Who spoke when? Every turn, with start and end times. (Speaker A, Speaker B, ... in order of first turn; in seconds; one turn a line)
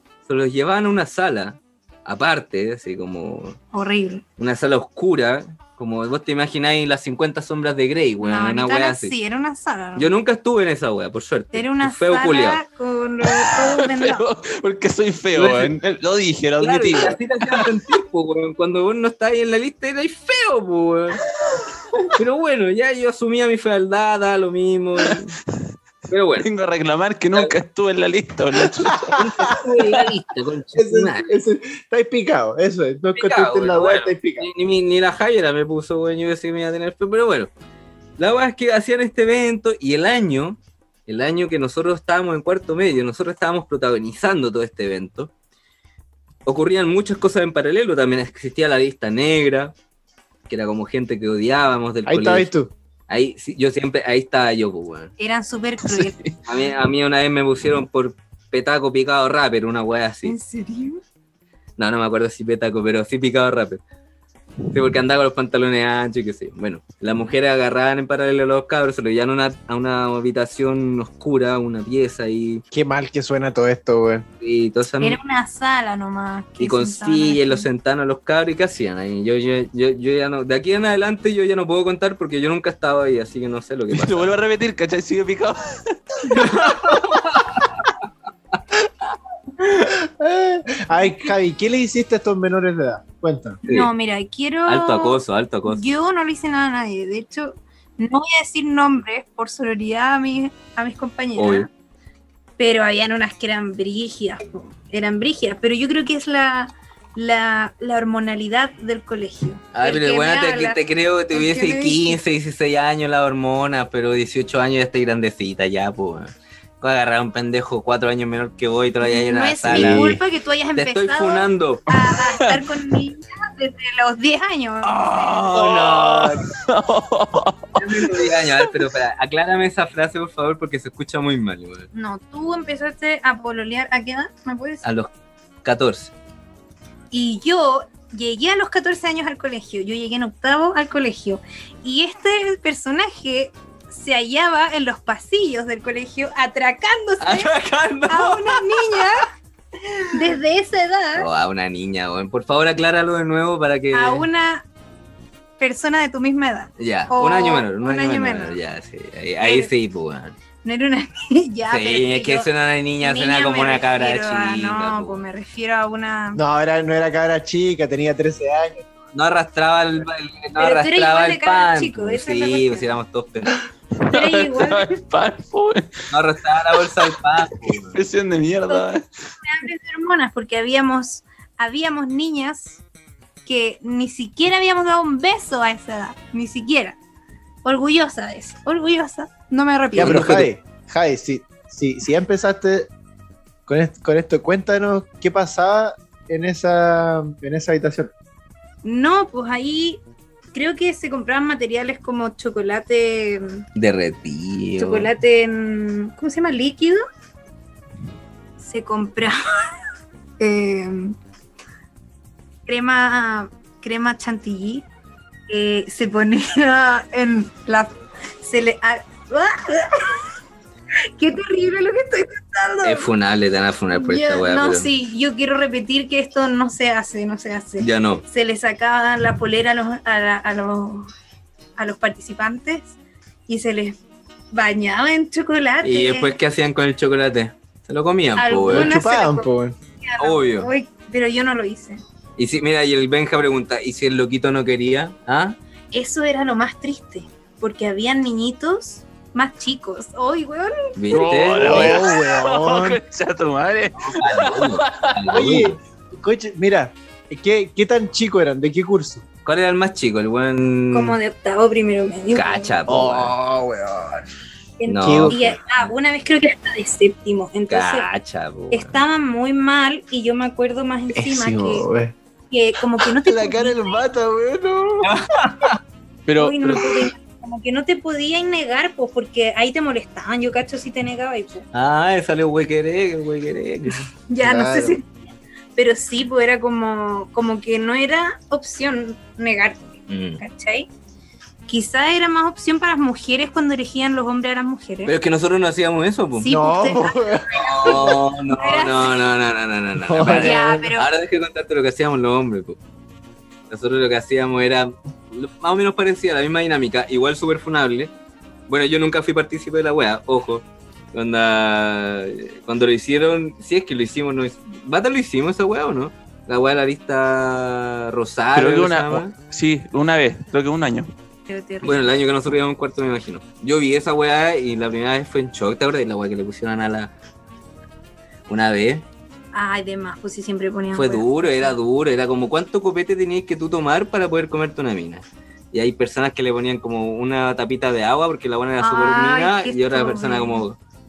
Speaker A: 0.3-3.6
Speaker B: 3.7-4.2
Speaker A: 4.4-9.1
Speaker B: 8.2-10.1
Speaker A: 10.0-12.6
Speaker B: 11.5-14.3
Speaker C: 13.2-17.7
Speaker A: 15.3-15.7
Speaker A: 16.6-21.2
Speaker A: 22.2-25.4
Speaker A: 26.1-26.5
Speaker C: 26.4-30.1
Speaker D: 28.9-29.6
Speaker A: 29.1-31.4
Speaker D: 30.8-34.5
Speaker A: 33.1-37.5
Speaker A: 38.2-45.3
Speaker A: 46.5-49.7
Speaker A: 50.5-52.5
Speaker D: 52.1-52.7
Speaker A: 53.1-55.1
Speaker B: 55.2-56.2
Speaker C: 55.9-56.4
Speaker A: 56.5-60.4
Speaker B: 60.2-61.0
Speaker A: 61.8-63.8
Speaker A: 64.7-72.6
Speaker D: 72.7-74.3
Speaker A: 74.4-75.2
Speaker B: 75.0-77.7
Speaker A: 76.6-84.3
Speaker C: 83.9-87.0
Speaker A: 86.3-87.8
Speaker D: 89.6-93.6
Speaker B: 93.7-101.7
Speaker A: 94.7-95.9
Speaker A: 101.4-101.7
Speaker B: 102.6-110.8
Speaker A: 109.7-120.2
Speaker B: 111.3-112.2
Speaker B: 119.0-125.4
Speaker D: 119.7-120.2
Speaker A: 120.8-121.8
Speaker C: 122.0-122.7
Speaker A: 124.9-126.5
Speaker C: 125.1-128.6
Speaker A: 127.8-131.9
Speaker B: 131.9-134.8
Speaker A: 134.8-135.1
Speaker A: 135.6-136.1
Speaker B: 137.1-147.5
Speaker A: 147.2-149.0
Speaker B: 148.1-149.3
Speaker A: 150.0-150.3
Speaker B: 150.1-151.3
Speaker A: 151.2-154.3
Speaker B: 153.9-154.7
Speaker B: 155.6-158.6
Speaker A: 156.8-160.4
Speaker B: 159.4-159.7
Speaker B: 160.6-162.5
Speaker A: 161.7-165.2
Speaker B: 163.0-166.4
Speaker D: 166.3-168.9
Speaker A: 169.1-173.6
Speaker B: 170.6-172.9
Speaker C: 174.0-175.9
Speaker B: 174.1-174.9
Speaker A: 176.1-178.0
Speaker C: 176.8-179.1
Speaker B: 178.7-182.8
Speaker B: 183.5-187.0
Speaker B: 187.6-190.3
Speaker D: 189.9-192.9
Speaker A: 189.9-190.5
Speaker D: 193.7-198.1
Speaker B: 198.8-200.0
Speaker B: 200.5-203.7
Speaker A: 203.8-205.1
Speaker B: 204.8-207.0
Speaker B: 208.6-209.8
Speaker B: 210.4-211.2
Speaker B: 212.7-214.9
Speaker B: 215.5-220.3
Speaker B: 221.2-223.1
Speaker A: 222.8-224.9
Speaker B: 223.9-231.1
Speaker A: 227.8-228.2
Speaker B: 231.8-233.0
Speaker B: 233.5-234.0
Speaker B: 234.5-236.4
Speaker A: 235.8-239.0
Speaker B: 238.4-239.5
Speaker D: 238.7-239.8
Speaker B: 240.0-242.0
Speaker A: 240.2-240.7
Speaker A: 242.4-245.6
Speaker B: 245.9-251.0
Speaker A: 251.0-252.1
Speaker C: 251.1-255.2
Speaker D: 251.6-253.0
Speaker A: 254.0-255.8
Speaker D: 255.3-259.2
Speaker A: 259.5-261.2
Speaker B: 260.9-262.7
Speaker A: 262.3-263.4
Speaker D: 262.9-264.3
Speaker B: 264.8-268.1
Speaker A: 264.9-265.9
Speaker D: 265.0-265.4
Speaker A: 267.7-269.0
Speaker B: 268.7-271.9
Speaker D: 271.1-272.1
Speaker B: 272.5-274.1
Speaker D: 273.0-275.1
Speaker A: 275.0-275.8
Speaker C: 276.3-277.1
Speaker B: 276.4-281.7
Speaker A: 281.7-284.1
Speaker B: 284.3-285.1
Speaker D: 284.4-285.0
Speaker B: 285.8-290.9
Speaker A: 290.1-290.4
Speaker B: 291.7-295.1
Speaker A: 295.1-296.5
Speaker B: 296.4-299.2
Speaker D: 296.5-298.2
Speaker A: 297.6-302.8
Speaker D: 300.0-300.9
Speaker B: 300.2-301.1
Speaker A: 303.7-308.1
Speaker A: 308.7-319.3
Speaker C: 318.6-321.1
Speaker B: 321.5-322.1
Speaker A: 321.8-327.1
Speaker A: 328.5-329.0
Speaker B: 329.5-331.8
Speaker A: 330.9-340.8
Speaker B: 338.8-340.6